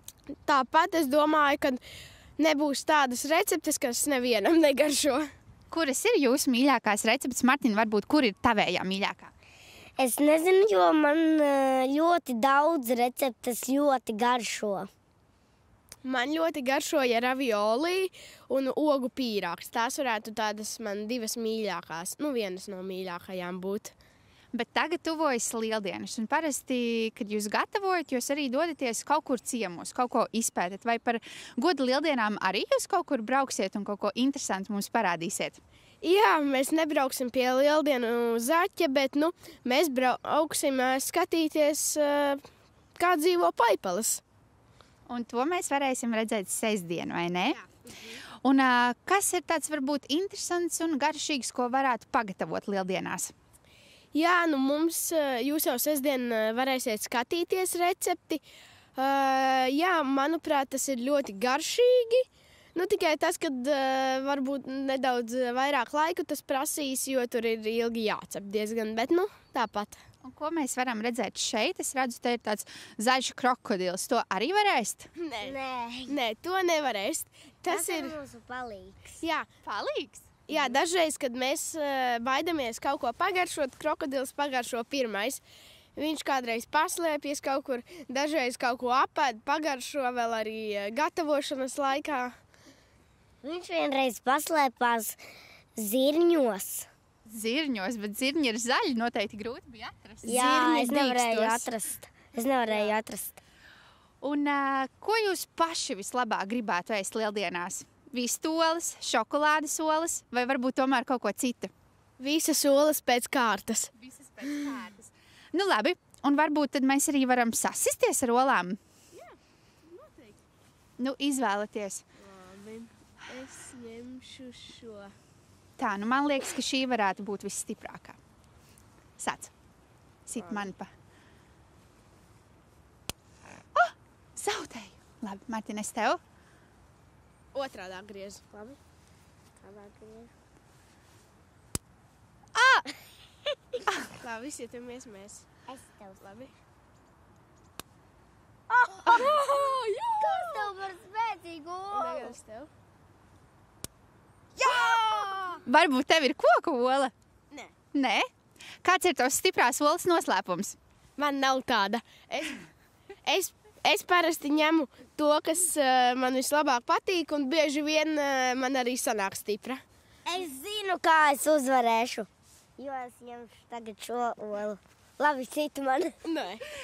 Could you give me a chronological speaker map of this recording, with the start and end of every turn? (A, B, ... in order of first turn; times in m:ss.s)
0:00.5-0:01.8 A
0:02.4-0:05.2 A
0:05.7-0:09.3 B
0:10.0-0:14.9 C
0:16.0-0:23.9 A
0:24.5-0:35.6 B
0:36.0-0:42.4 A
0:43.0-0:44.2 A
0:45.1-0:47.6 B
0:47.5-0:48.2 A
0:48.4-0:53.3 B
0:54.1-0:58.4 A
0:59.0-1:10.0 A
1:10.2-1:15.1 B
1:15.2-1:15.6 A
1:15.4-1:16.2 C
1:16.1-1:18.2 A
1:17.7-1:19.2 C
1:19.2-1:19.5 A
1:19.6-1:20.8 B
1:20.5-1:25.4 A
1:26.0-1:32.3 A
1:33.4-1:35.2 C
1:35.8-1:36.9 C
1:37.3-1:41.7 B
1:40.3-1:43.4 C
1:40.3-1:40.6 A
1:42.7-1:42.9 A
1:44.2-1:51.7 B
1:52.2-1:53.9 A
1:54.0-1:58.8 B
1:59.1-2:00.4 A
2:01.0-2:02.0 B
2:02.2-2:05.1 A
2:05.8-2:08.2 B
2:09.2-2:09.5 B
2:10.3-2:10.9 B
2:10.4-2:10.7 A
2:13.8-2:16.2 B
2:17.5-2:18.5 A
2:19.6-2:20.3 C
2:22.6-2:22.9 B
2:24.2-2:25.5 A
2:25.7-2:26.2 C
2:26.2-2:26.5 A
2:28.8-2:29.4 C
2:28.9-2:30.7 A
2:30.2-2:32.4 C
2:31.9-2:32.7 A
2:34.6-2:35.6 A
2:35.7-2:37.1 B
2:37.9-2:38.3 B
2:38.8-2:40.8 B
2:41.2-2:42.7 A
2:43.2-2:49.8 A
2:50.3-2:56.2 C
2:56.2-2:56.6 A